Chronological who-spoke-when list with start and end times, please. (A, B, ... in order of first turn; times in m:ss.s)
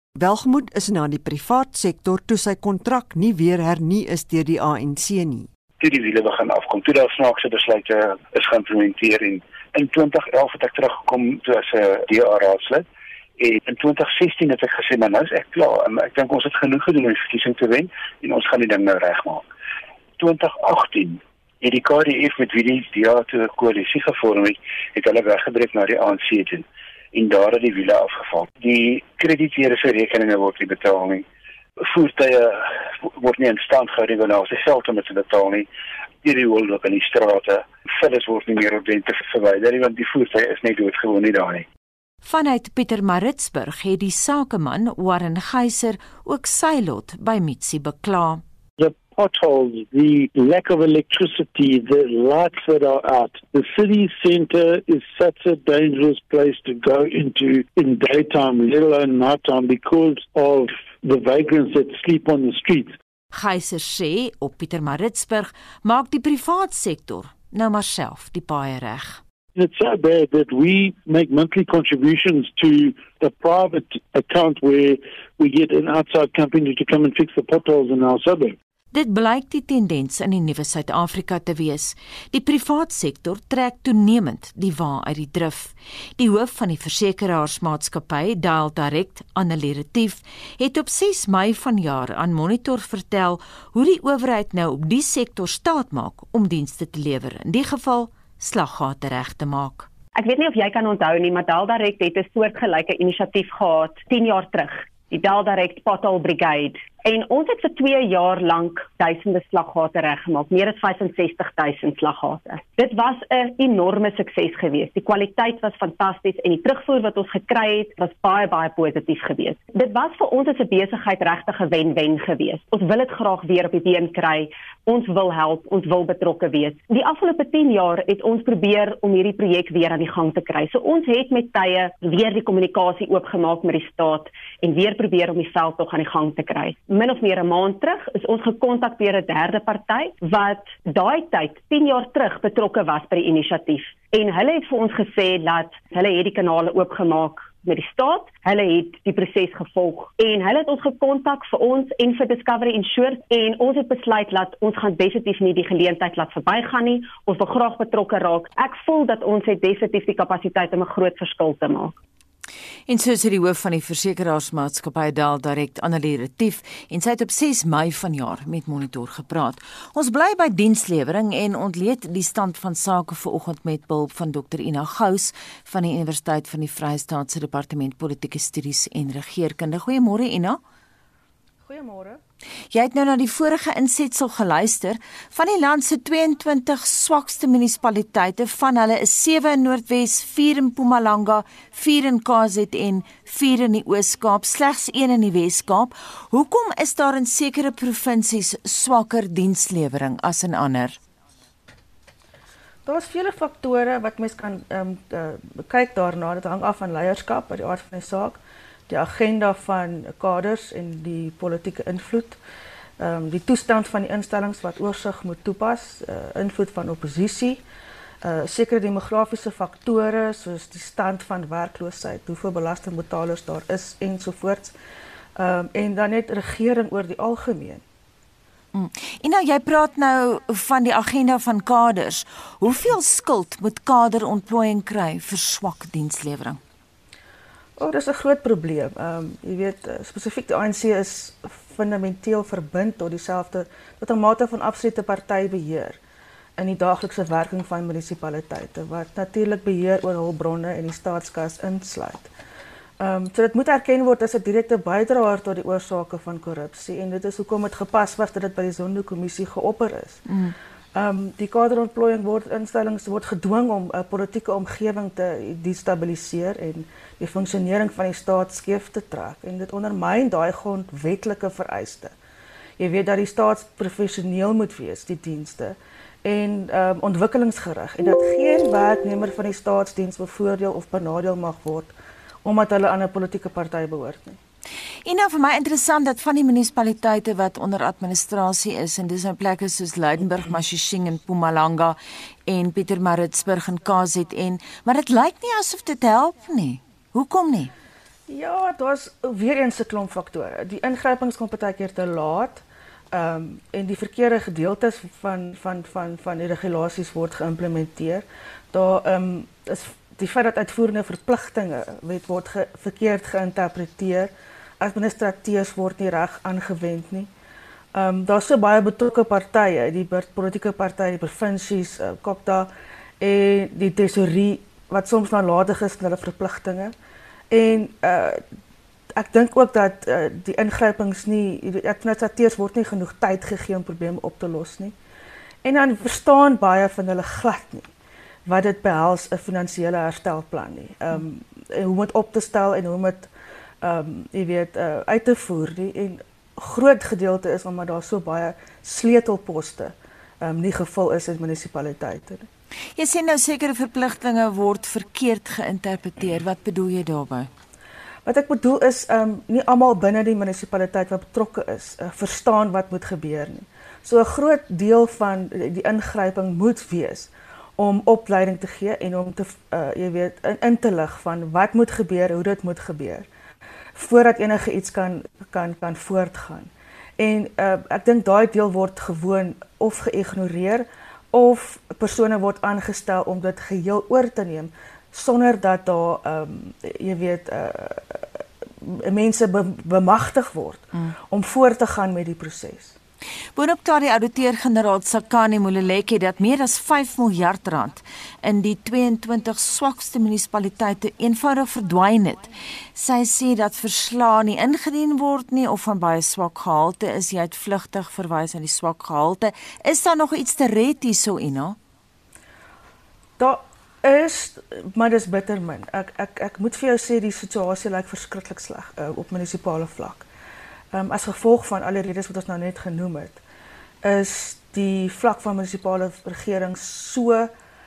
0:00.2-0:05.4 A
0:05.8-0:12.8 B
0:13.4-0:19.4 B
0:20.2-0:31.2 B
0:31.8-0:32.6 B
0:33.1-0:35.7 B
0:36.2-0:41.6 B
0:42.2-0:48.4 C
0:48.8-1:03.0 D
1:03.3-1:09.2 C
1:09.6-1:18.5 D
1:18.9-1:39.9 C
1:40.2-2:42.0 E
2:42.9-3:00.6 C
3:01.6-3:02.2 F
3:02.7-3:21.0 C
3:22.9-3:32.4 F
3:33.0-3:37.6 F
3:38.2-3:44.8 F
3:45.4-3:47.8 F
3:48.7-3:56.6 C
3:57.8-4:06.0 F
4:06.6-4:12.3 F
4:13.0-4:20.2 F
4:20.3-4:20.5 C
4:21.0-4:32.1 F
4:32.8-4:41.9 F
4:42.4-4:44.4 F
4:45.1-4:57.7 C
4:58.3-5:17.3 F
5:17.9-5:26.9 F
5:27.5-5:28.4 F
5:29.1-5:35.0 F
5:35.6-5:37.9 F
5:38.5-5:43.3 F
5:43.8-5:52.5 F
5:53.0-5:57.5 C
5:58.2-6:13.3 F
6:14.0-6:33.0 F
6:33.6-6:51.8 C
6:53.4-7:00.3 F
7:00.9-7:03.4 F
7:04.0-7:07.5 F